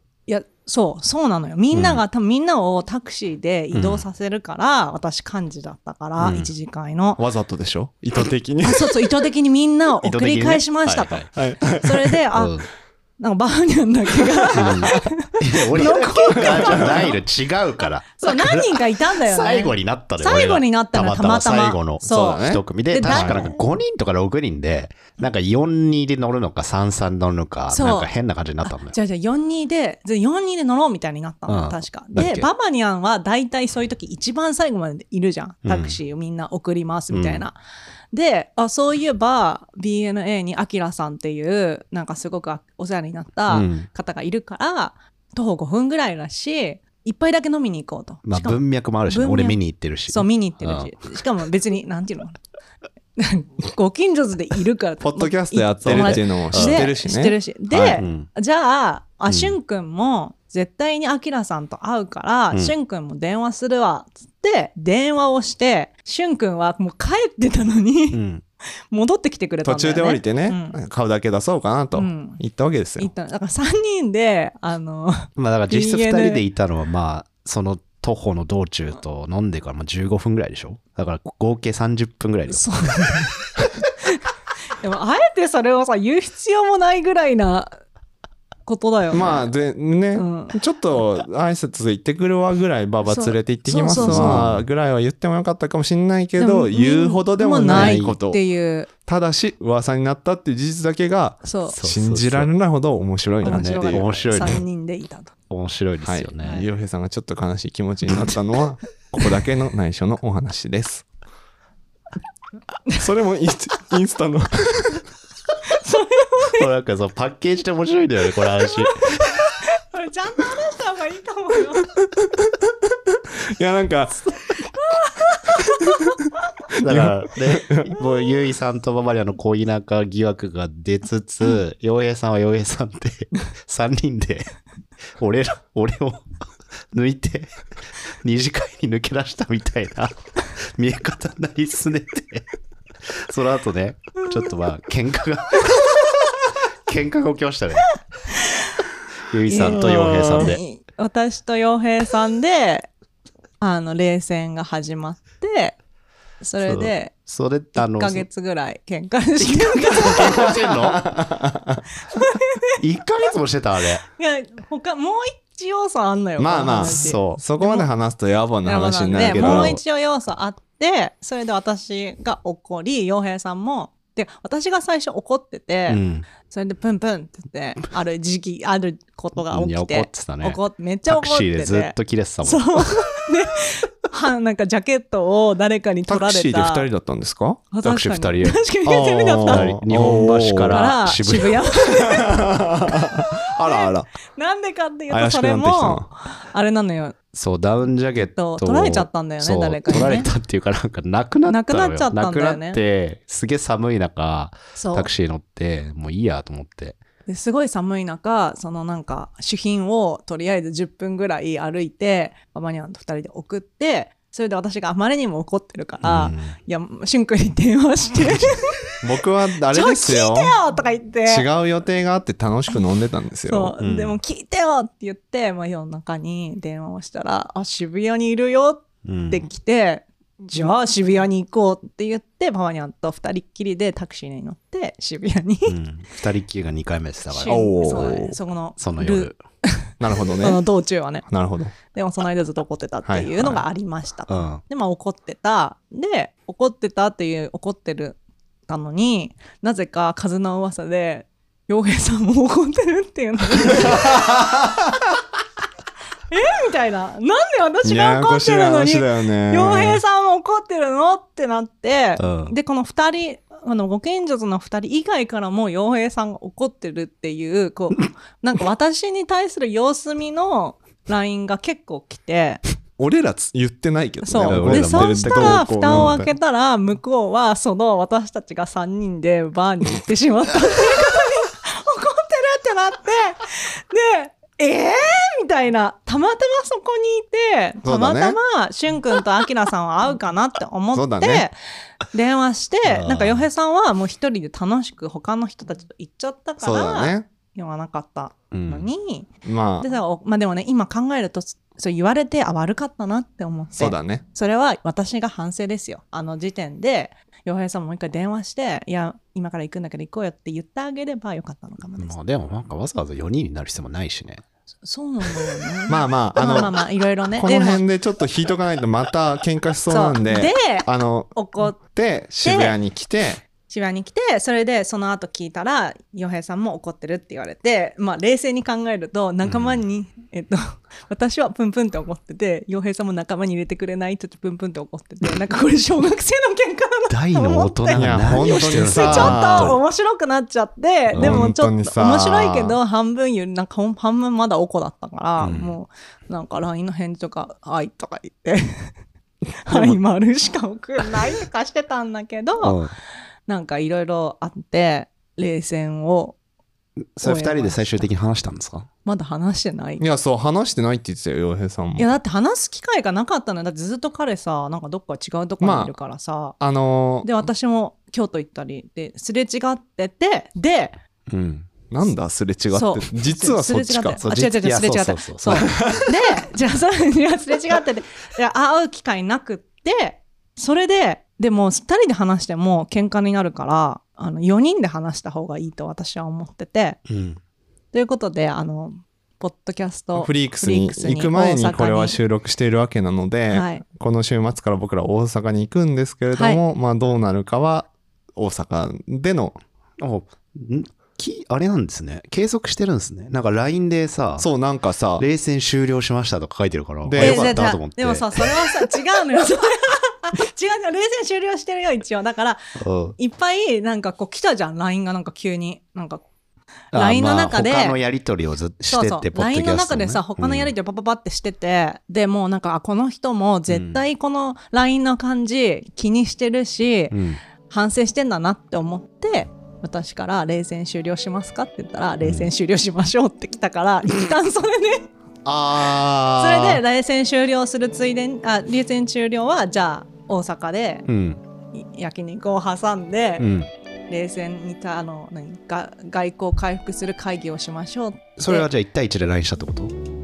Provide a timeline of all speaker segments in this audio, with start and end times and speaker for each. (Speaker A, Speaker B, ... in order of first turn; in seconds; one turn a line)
Speaker A: 0.3-7.2
Speaker B: 1.7-2.0
Speaker B: 3.7-4.0
Speaker B: 6.2-6.5
Speaker C: 7.2-9.0
Speaker A: 8.6-12.6
Speaker B: 10.0-11.3
Speaker C: 11.3-12.2
Speaker B: 12.3-12.7
Speaker A: 13.2-17.2
Speaker C: 14.4-14.9
Speaker B: 14.6-29.0
Speaker A: 18.2-23.6
Speaker C: 22.1-23.5
Speaker A: 27.7-28.1
Speaker A: 28.6-37.6
Speaker B: 31.5-32.5
Speaker B: 35.6-36.0
Speaker B: 37.1-37.5
Speaker A: 38.1-52.4
Speaker B: 43.5-43.9
Speaker B: 48.2-51.0
Speaker A: 53.2-68.2
Speaker C: 55.0-58.0
Speaker B: 55.8-56.9
Speaker B: 57.8-58.3
Speaker B: 59.3-59.6
Speaker B: 68.1-68.4
Speaker A: 68.9-70.8
Speaker C: 69.7-73.1
Speaker A: 71.9-72.4
Speaker A: 73.0-76.4
Speaker B: 75.4-82.7
Speaker A: 82.5-83.4
Speaker A: 84.8-87.8
Speaker A: 88.7-89.5
Speaker C: 89.1-98.4
Speaker A: 90.2-90.6
Speaker A: 93.1-94.4
Speaker B: 94.0-94.7
Speaker A: 96.4-98.9
Speaker B: 97.7-98.2
Speaker C: 99.0-104.1
Speaker A: 101.4-101.8
Speaker B: 101.7-102.5
Speaker A: 103.4-105.3
Speaker B: 103.5-104.6
Speaker B: 105.5-106.6
Speaker C: 106.0-111.1
Speaker C: 113.0-115.0
Speaker A: 115.7-116.7
Speaker B: 116.6-119.2
Speaker A: 118.8-119.1
Speaker A: 119.7-121.9
Speaker C: 123.1-124.3
Speaker A: 124.8-126.1
Speaker B: 126.8-134.5
Speaker C: 126.8-127.9
Speaker B: 135.2-136.3
Speaker B: 136.9-137.5
Speaker B: 138.2-142.5
Speaker B: 143.0-146.1
Speaker B: 146.9-147.9
Speaker B: 149.2-150.6
Speaker A: 149.5-152.9
Speaker C: 149.8-150.5
Speaker A: 153.6-155.8
Speaker A: 156.4-157.1
Speaker B: 156.6-158.3
Speaker A: 157.8-160.6
Speaker B: 159.5-161.1
Speaker C: 160.9-161.8
Speaker A: 162.1-162.8
Speaker B: 162.8-164.0
Speaker A: 164.2-167.9
Speaker C: 166.4-169.8
Speaker B: 166.8-167.4
Speaker A: 168.6-186.9
Speaker B: 169.2-169.8
Speaker B: 175.9-176.3
Speaker B: 179.5-182.9
Speaker C: 186.1-187.7
Speaker A: 187.7-189.8
Speaker B: 187.8-188.6
Speaker C: 188.8-190.9
Speaker B: 189.5-191.7
Speaker A: 190.7-192.7
Speaker C: 192.1-194.1
Speaker A: 193.5-197.2
Speaker C: 195.1-196.1
Speaker B: 197.3-207.0
Speaker A: 198.3-200.3
Speaker A: 201.5-202.8
Speaker A: 204.8-205.1
Speaker A: 207.3-218.8
Speaker B: 216.0-216.6
Speaker C: 219.0-220.6
Speaker A: 219.7-221.5
Speaker C: 221.3-223.7
Speaker A: 223.5-235.8
Speaker B: 223.8-224.2
Speaker B: 229.0-229.5
Speaker B: 235.7-238.2
Speaker A: 237.3-241.3
Speaker C: 237.5-238.4
Speaker B: 238.8-239.4
Speaker C: 240.0-240.6
Speaker C: 241.3-241.8
Speaker A: 241.9-254.3
Speaker C: 243.1-243.6
Speaker B: 244.3-244.6
Speaker C: 253.9-254.7
Speaker A: 256.3-272.6
Speaker C: 257.8-260.0
Speaker B: 262.2-262.5
Speaker C: 273.0-276.3
Speaker A: 274.2-291.6
Speaker B: 274.4-276.2
Speaker C: 287.8-288.4
Speaker C: 290.9-291.4
Speaker A: 292.1-299.3
Speaker B: 292.9-293.5
Speaker C: 296.6-297.3
Speaker B: 298.5-298.9
Speaker C: 299.4-299.9
Speaker A: 299.8-312.2
Speaker C: 303.8-304.2
Speaker B: 312.0-314.4
Speaker A: 314.8-317.8
Speaker C: 315.9-316.7
Speaker C: 317.3-323.4
Speaker A: 319.9-321.8
Speaker A: 322.4-322.8
Speaker A: 323.6-348.9
Speaker B: 329.4-329.8
Speaker B: 337.1-339.8
Speaker C: 337.9-339.8
Speaker B: 341.1-341.4
Speaker C: 341.1-342.8
Speaker B: 345.4-345.8
Speaker A: 349.6-352.8
Speaker C: 349.7-350.0
Speaker B: 352.6-352.9
Speaker A: 353.5-356.4
Speaker B: 357.0-358.9
Speaker A: 357.2-358.1
Speaker A: 359.1-360.0
Speaker C: 360.0-362.1
Speaker A: 362.0-366.6
Speaker C: 365.6-365.9
Speaker C: 366.6-367.3
Speaker A: 367.2-371.0
Speaker B: 371.3-371.7
Speaker C: 371.9-374.2
Speaker A: 372.7-387.0
Speaker B: 374.2-376.0
Speaker C: 375.7-376.0
Speaker B: 387.1-387.4
Speaker A: 387.9-392.2
Speaker C: 390.2-399.6
Speaker A: 393.5-393.8
Speaker A: 396.3-396.6
Speaker B: 400.0-404.5
Speaker C: 404.4-405.2
Speaker B: 405.2-408.6
Speaker C: 407.1-407.5
Speaker A: 407.1-412.6
Speaker B: 412.8-413.2
Speaker A: 413.2-416.2
Speaker A: 416.9-418.0
Speaker B: 416.9-420.7
Speaker A: 418.9-435.1
Speaker B: 423.7-424.0
Speaker B: 427.1-427.4
Speaker B: 432.2-432.5
Speaker C: 435.4-436.8
Speaker A: 436.4-441.1
Speaker B: 441.1-441.4
Speaker A: 441.7-443.5
Speaker B: 443.4-443.7
Speaker A: 444.1-448.7
Speaker B: 448.4-449.9